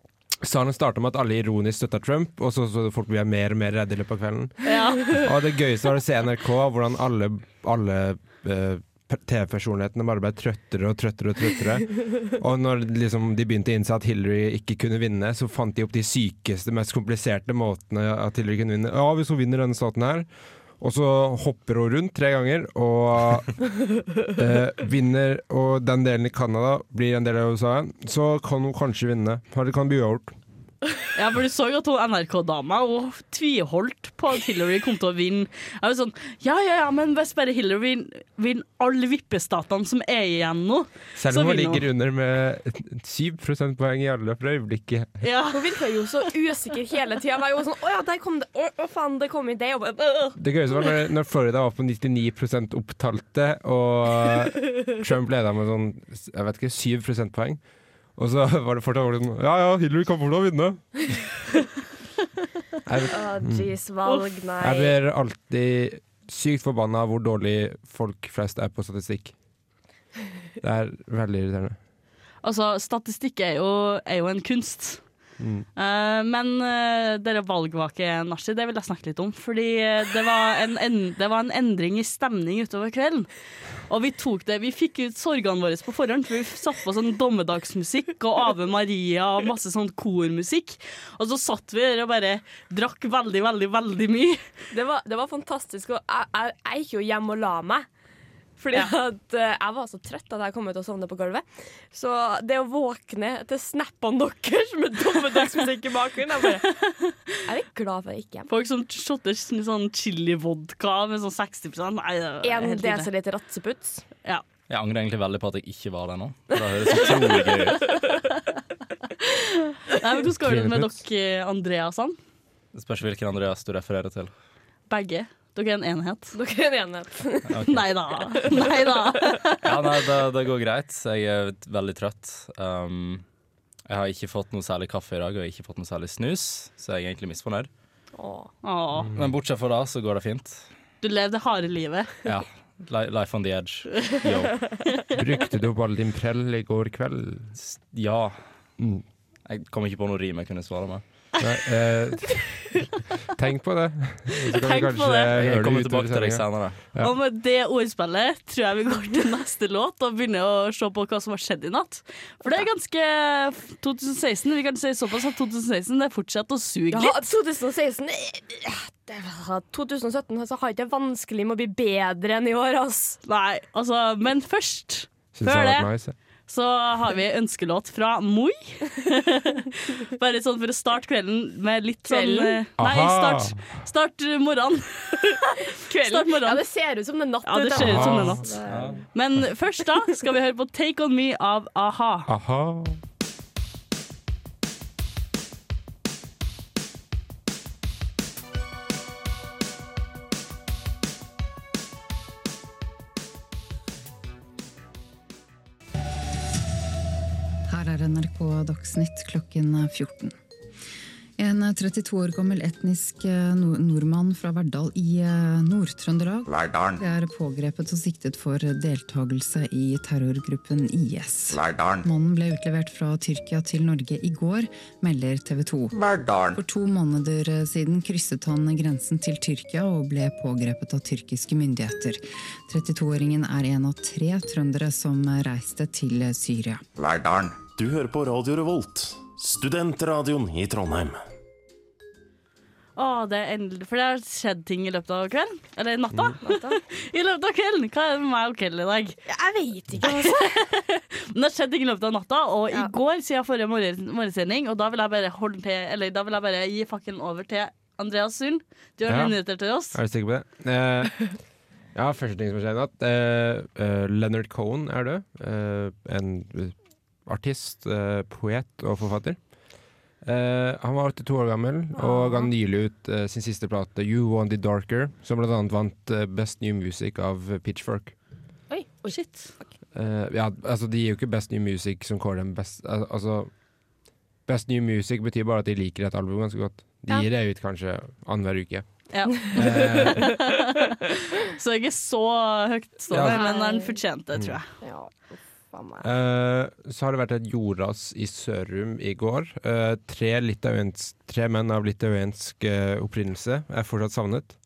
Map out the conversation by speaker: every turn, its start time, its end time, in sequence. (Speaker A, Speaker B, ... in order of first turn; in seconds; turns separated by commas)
Speaker A: 0.4-20.3, Speaker B: 4.6-5.3, Speaker A: 20.8-23.6, Speaker A: 24.3-30.4, Speaker B: 31.1-41.8, Speaker A: 41.1-45.2, Speaker B: 45.2-45.6, Speaker C: 45.5-50.4, Speaker A: 50.4-57.6, Speaker A: 58.1-61.3, Speaker A: 62.8-63.7, Speaker C: 63.1-64.9, Speaker A: 64.6-69.3, Speaker A: 70.6-71.8, Speaker B: 72.4-75.0, Speaker A: 75.4-75.7, Speaker B: 75.8-83.3, Speaker B: 83.8-94.4, Speaker C: 94.7-97.9, Speaker C: 98.6-106.8, Speaker B: 106.9-107.2, Speaker C: 107.5-108.5, Speaker B: 108.5-113.1, Speaker C: 112.4-114.0, Speaker D: 114.7-118.0, Speaker C: 116.5-117.9, Speaker B: 119.8-122.2, Speaker A: 120.4-121.0, Speaker D: 122.7-124.3, Speaker B: 124.9-126.3, Speaker C: 126.3-127.8, Speaker D: 127.5-128.4, Speaker B: 127.7-129.7, Speaker C: 128.4-129.3, Speaker D: 129.6-133.2, Speaker D: 133.9-137.7, Speaker C: 138.2-138.5, Speaker B: 138.6-139.1, Speaker A: 139.0-139.3, Speaker D: 139.1-140.7, Speaker B: 141.0-142.2, Speaker D: 142.2-144.7, Speaker A: 145.1-147.5, Speaker D: 147.6-148.4, Speaker A: 148.8-149.0, Speaker D: 149.5-151.0, Speaker A: 151.4-157.2, Speaker B: 154.5-155.3, Speaker D: 155.3-156.8, Speaker B: 157.0-167.3, Speaker C: 166.9-173.2, Speaker B: 173.2-175.9, Speaker A: 175.3-176.1, Speaker B: 176.5-185.5, Speaker C: 182.1-182.6, Speaker A: 182.8-183.8, Speaker C: 185.6-189.1, Speaker B: 186.0-186.6, Speaker B: 187.4-188.5, Speaker A: 187.8-188.5, Speaker D: 188.7-189.0, Speaker B: 189.1-192.3, Speaker A: 192.3-193.0, Speaker E: 207.7-210.3, Speaker E: 211.4-226.0, Speaker F: 216.5-217.0, Speaker F: 221.5-222.1, Speaker F: 225.9-226.6, Speaker E: 226.5-236.8, Speaker F: 237.0-237.6, Speaker G: 237.7-241.2, Speaker B: 242.9-249.2, Speaker C: 246.4-246.8, Speaker C: 249.3-250.5, Speaker B: 250.0-260.0, Speaker A: 259.1-259.4, Speaker A: 259.9-261.3, Speaker A: 261.9-269.4, Speaker A: 270.2-278.1, Speaker C: 272.0-272.5, Speaker C: 278.7-279.7, Speaker B: 279.1-279.5, Speaker A: 279.9-283.5, Speaker A: 284.5-288.9, Speaker B: 289.1-294.7, Speaker A: 289.4-290.4, Speaker C: 289.4-290.6, Speaker A: 293.1-293.5, Speaker C: 293.2-294.0, Speaker A: 294.3-294.6, Speaker C: 294.8-296.1, Speaker A: 296.0-304.6